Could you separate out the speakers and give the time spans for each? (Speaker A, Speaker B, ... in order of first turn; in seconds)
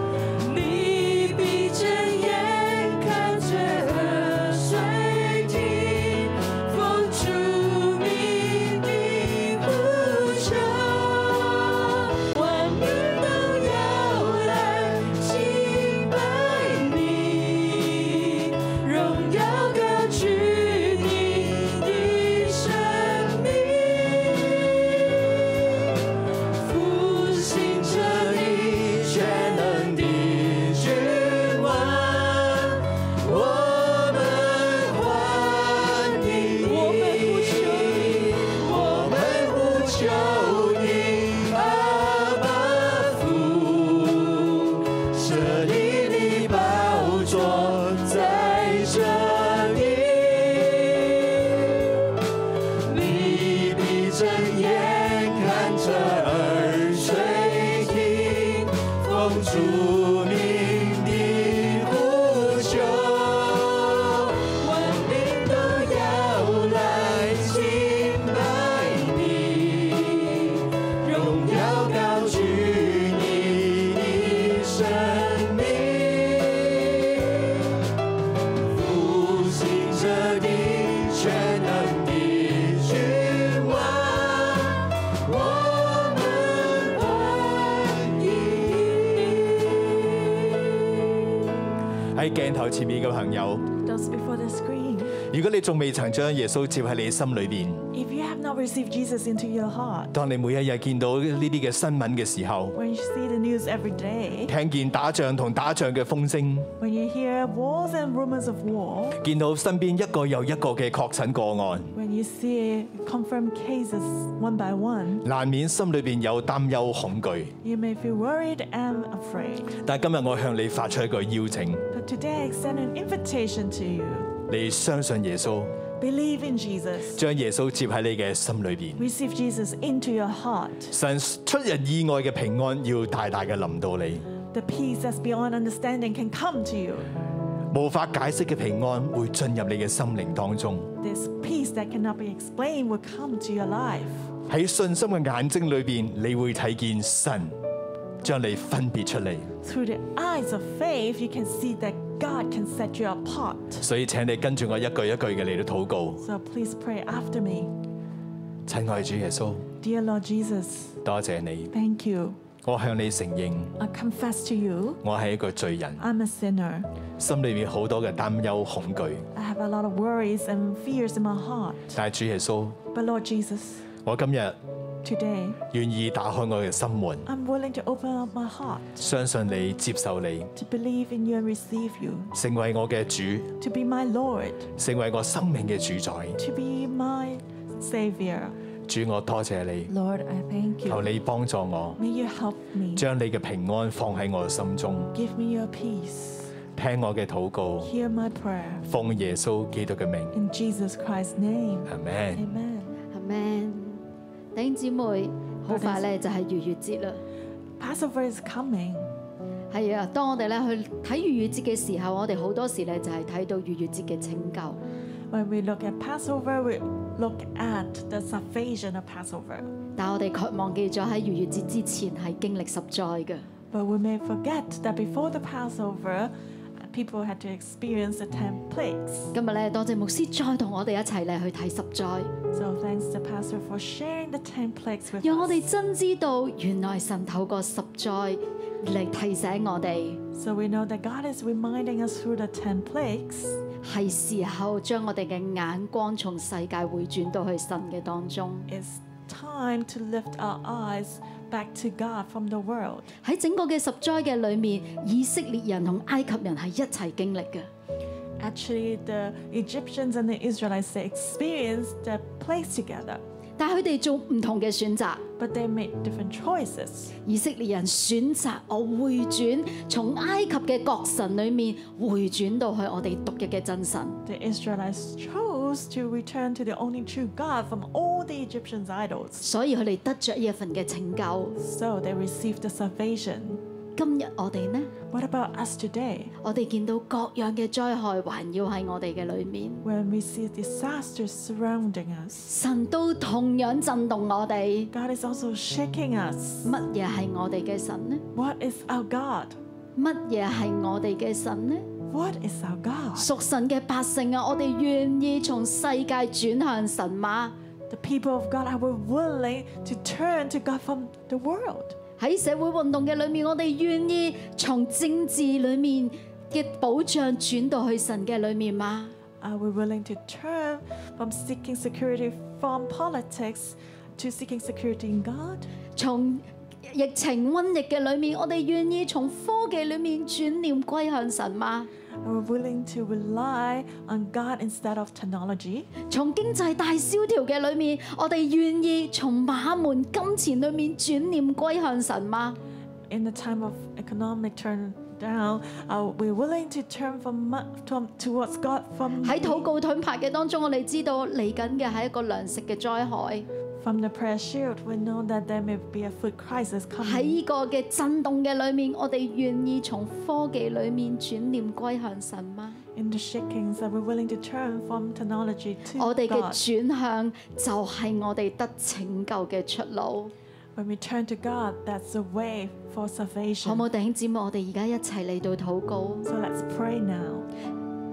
Speaker A: 0.4-24.4, 26.6-51.5, 52.8-76.8, 78.7-89.7
Speaker B: 92.1-93.7, 95.3-97.8, 100.1-102.7, 104.5-106.7, 109.2-111.9, 115.2-117.5, 119.7-121.8, 124.5-125.7, 127.1-129.1, 130.9-134.2, 137.7-140.9, 144.5-147.6, 148.2-149.5, 153.8-156.2, 158.7-159.6, 161.0-161.7, 162.6-163.7, 165.0-166.0, 167.2-169.2, 171.9-172.8, 174.0-174.6, 175.7-177.3, 179.0-180.5, 182.3-183.5, 184.8-186.4, 188.9-189.9, 190.8-192.0, 192.9-195.1, 196.8-197.9, 198.8-200.3, 201.9-202.5
Speaker C: 93.8-95.2, 97.9-100.1, 102.7-104.5, 106.8-109.2, 111.9-115.2, 117.6-119.7, 121.9-124.3, 126.0-127.2, 129.0-130.9, 134.5-137.1, 141.0-144.3, 149.6-153.8, 156.2-157.7, 159.8-160.9, 161.7-162.4, 163.8-165.0, 166.0-166.9, 169.3-172.0, 172.9-173.9, 175.0-175.6, 177.2-179.0, 180.5-182.3, 183.6-184.7, 186.4-188.5, 189.9-191.0, 192.0-193.0, 195.1-196.5, 197.8-198.8, 200.3-203.0, 205.7-206.1, 207.8-209.1, 215.3-219.7, 223.7-229.3, 232.5-235.6, 240.3-243.6, 248.7-253.1, 258.4-263.2, 265.4-267.1, 274.2-279.5, 281.6-283.6, 285.1-286.3, 289.8-292.5, 294.9-296.7, 298.3-299.6, 302.1-303.3, 307.9-311.9, 319.4-325.7, 332.2-335.9, 343.1-349.7, 353.8-357.4, 362.9-366.6, 370.8-373.8, 376.2-377.4
Speaker D: 203.1-204.0, 204.5-207.2, 209.7-214.8, 219.9-223.4, 229.3-232.3, 235.2-240.2, 243.8-248.7, 253.2-257.7, 263.6-265.2, 267.2-274.2, 279.4-281.6, 283.9-284.9, 286.4-289.8, 292.5-294.9, 296.6-298.2, 299.9-301.9, 303.1-307.5, 312.2-319.1, 325.9-331.9, 336.1-342.6, 349.2-353.5, 357.0-362.8, 366.0-370.3, 373.6-376.3